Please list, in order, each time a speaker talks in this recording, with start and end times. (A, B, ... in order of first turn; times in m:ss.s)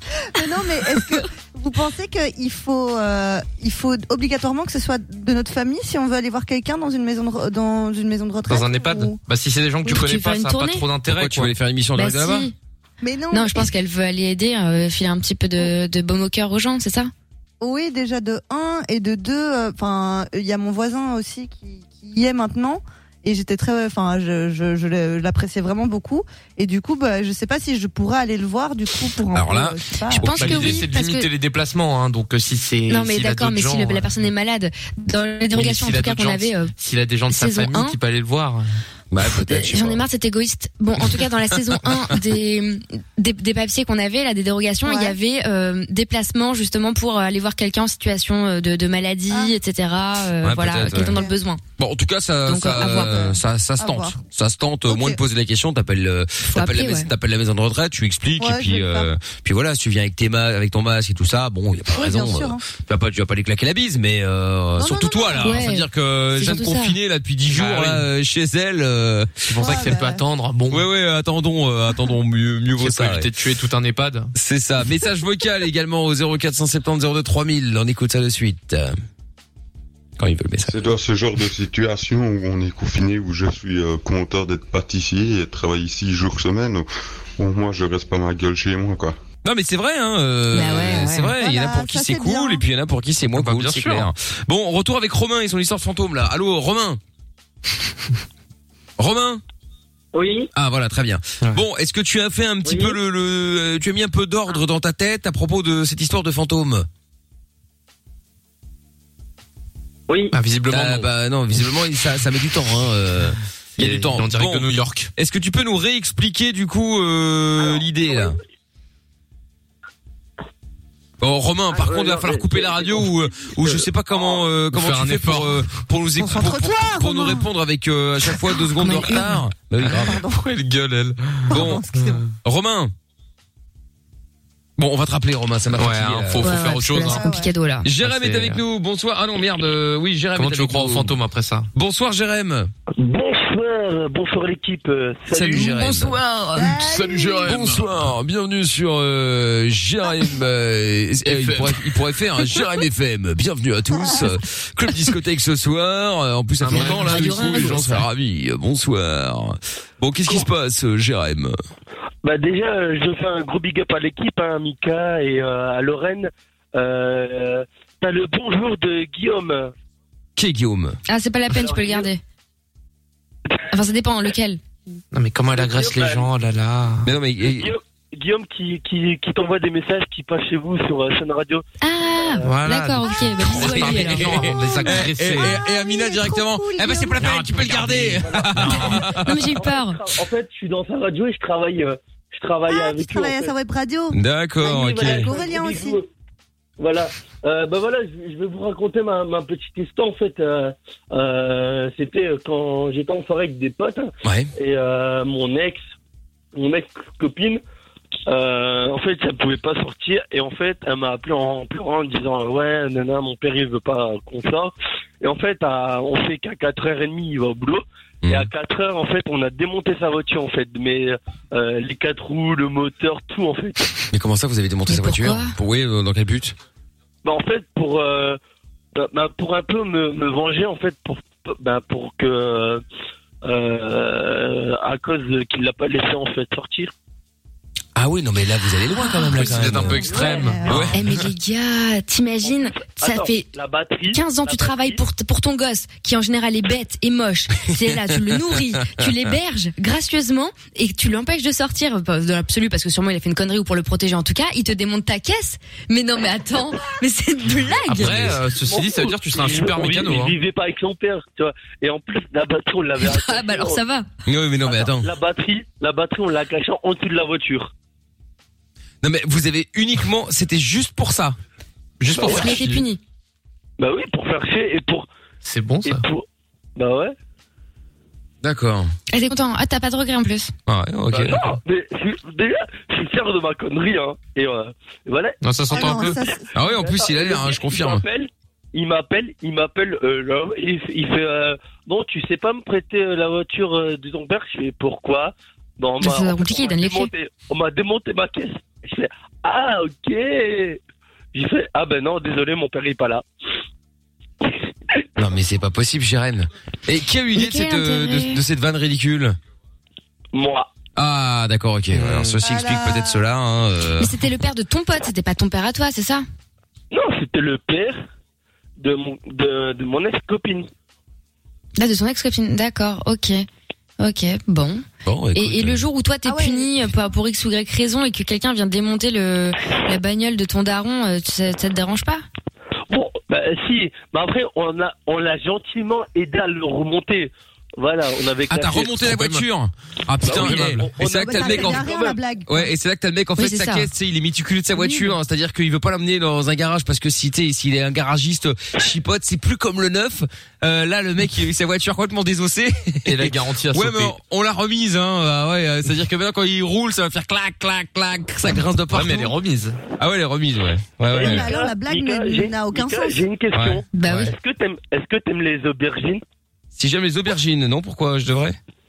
0:00.3-0:09.2 A
0:08.5-0:11.5 B
0:09.9-0:10.9 C
0:11.1-0:12.5 D
0:12.0-0:12.5 C
0:13.0-0:13.7 A
0:13.3-0:17.1 C
0:17.6-0:30.3 A
0:29.3-0:30.8 D
0:30.2-0:31.3 C
0:30.3-0:34.2 B
0:32.9-0:36.7 C
0:35.5-0:38.7 B
0:37.3-0:38.0 C
0:39.1-0:40.0 D
0:39.5-0:51.6 C
0:44.8-0:45.2 A
0:50.4-0:51.2 D
0:50.9-0:51.4 A
0:51.8-1:09.9 D
0:52.5-0:53.4 C
0:52.7-0:54.2 A
0:54.9-0:55.2 A
0:56.4-0:57.1 C
0:58.4-0:59.1 A
1:01.9-1:02.6 A
1:04.8-1:05.7 A
1:05.4-1:07.0 C
1:07.5-1:08.1 B
1:09.5-1:10.9 B
1:09.6-1:10.2 A
1:10.7-1:13.3 D
1:12.8-1:14.3 B
1:14.4-1:19.0 D
1:20.2-1:20.9 D
1:20.7-1:29.2 E
1:29.4-1:37.0 D
1:30.5-1:31.3 C
1:31.2-1:32.6 A
1:33.4-1:34.1 B
1:39.0-1:39.4 D
1:40.1-1:40.5 F
1:40.5-1:46.9 D
1:42.7-1:43.0 F
1:50.3-1:51.1 B
1:50.7-1:58.4 D
1:53.8-1:55.1 B
2:01.2-2:10.2 D
2:01.7-2:03.1 F
2:04.7-2:05.8 B
2:06.2-2:07.5 A
2:08.8-2:09.4 C
2:09.8-2:12.3 B
2:10.0-2:10.4 A
2:11.5-2:11.8 D
2:11.5-2:12.2 A
2:12.4-2:12.9 D
2:14.8-2:16.6 D
2:15.8-2:17.3 B
2:16.4-2:17.9 C
2:17.0-2:17.5 A
2:17.8-2:21.1 D
2:18.0-2:18.6 B
2:20.4-2:21.7 B
2:21.8-2:22.7 D
2:23.0-2:25.7 G
2:25.3-2:26.2 D
2:25.6-2:26.8 C
2:26.5-2:27.5 A
2:26.8-2:27.9 B
2:27.4-2:41.6 D
2:31.2-2:31.8 B
2:34.0-2:34.3 A
2:36.6-2:37.8 B
2:36.7-2:38.0 C
2:42.2-2:49.7 G
2:50.4-2:51.0 D
2:51.1-2:52.2 C
2:51.6-2:52.1 G
2:53.7-2:54.6 C
2:55.1-2:57.1 B
2:55.5-2:56.3 G
2:57.0-2:57.7 D
2:57.4-3:01.6 G
3:01.8-3:04.4 C
3:02.2-3:02.5 G
3:02.4-3:05.6 B
3:03.0-3:07.5 A
3:04.1-3:09.5 D
3:07.2-3:08.2 B
3:08.2-3:08.6 G
3:09.2-3:10.0 C
3:09.6-3:13.6 G
3:12.7-3:16.0 A
3:14.1-3:15.3 D
3:14.6-3:16.1 G
3:16.8-3:25.8 G
3:24.2-3:24.5 D
3:26.6-3:27.6 G
3:28.3-3:43.9 G
3:38.2-3:38.5 D
3:44.1-3:46.6 D
3:44.9-3:45.6 C
3:47.2-3:48.4 G
3:49.0-3:52.8 G
3:53.4-3:56.9 G
3:58.0-4:00.1 D
3:59.3-4:01.0 B
3:59.7-4:00.9 A
4:00.0-4:00.6 G
4:00.7-4:00.9 D
4:00.9-4:03.5 C
4:02.4-4:05.0 G
4:04.1-4:18.4 C
4:07.9-4:09.1 D
4:17.9-4:20.4 B
4:18.6-4:23.8 G
4:23.0-4:24.1 C
4:24.3-4:25.1 D
4:24.6-4:27.7 G
4:29.0-4:31.4 D
4:32.0-4:32.8 B
4:32.2-4:33.0 C
4:32.2-4:32.6 G
4:33.8-4:35.1 G
4:35.4-4:36.0 B
4:35.8-4:36.2 G
4:36.8-4:37.2 G
4:38.4-4:38.9 D
4:39.1-4:40.5 C
4:40.7-4:41.3 D
4:41.1-5:00.8 G
4:45.4-4:46.2 B
4:45.7-4:46.5 A
4:46.6-4:48.0 D
4:56.0-4:57.1 C
5:01.3-5:03.2 G
5:05.2-5:09.4 D
5:07.4-5:08.4 C
5:10.3-5:10.7 G
5:11.0-5:14.2 D
5:12.0-5:12.4 B
5:12.4-5:13.2 A
5:14.0-5:16.3 C
5:16.9-5:18.0 G
5:18.8-5:20.7 G
5:21.8-5:23.4 C
5:24.0-5:32.2 C
5:25.0-5:25.8 D
5:26.2-5:27.1 A
5:32.9-5:39.2 G
5:38.5-5:41.9 D
5:39.1-5:39.4 B
5:40.2-5:42.2 G
5:40.3-5:40.9 B
5:41.1-5:42.7 A
5:42.5-5:59.3 D
5:43.4-5:43.9 C
5:44.8-5:45.2 A
5:53.1-5:54.1 B
5:58.9-5:59.8 B
6:00.0-6:01.5 D
6:01.1-6:03.2 A
6:01.1-6:06.2 G
6:03.6-6:03.8 D
6:03.9-6:04.3 C
6:06.8-6:08.6 D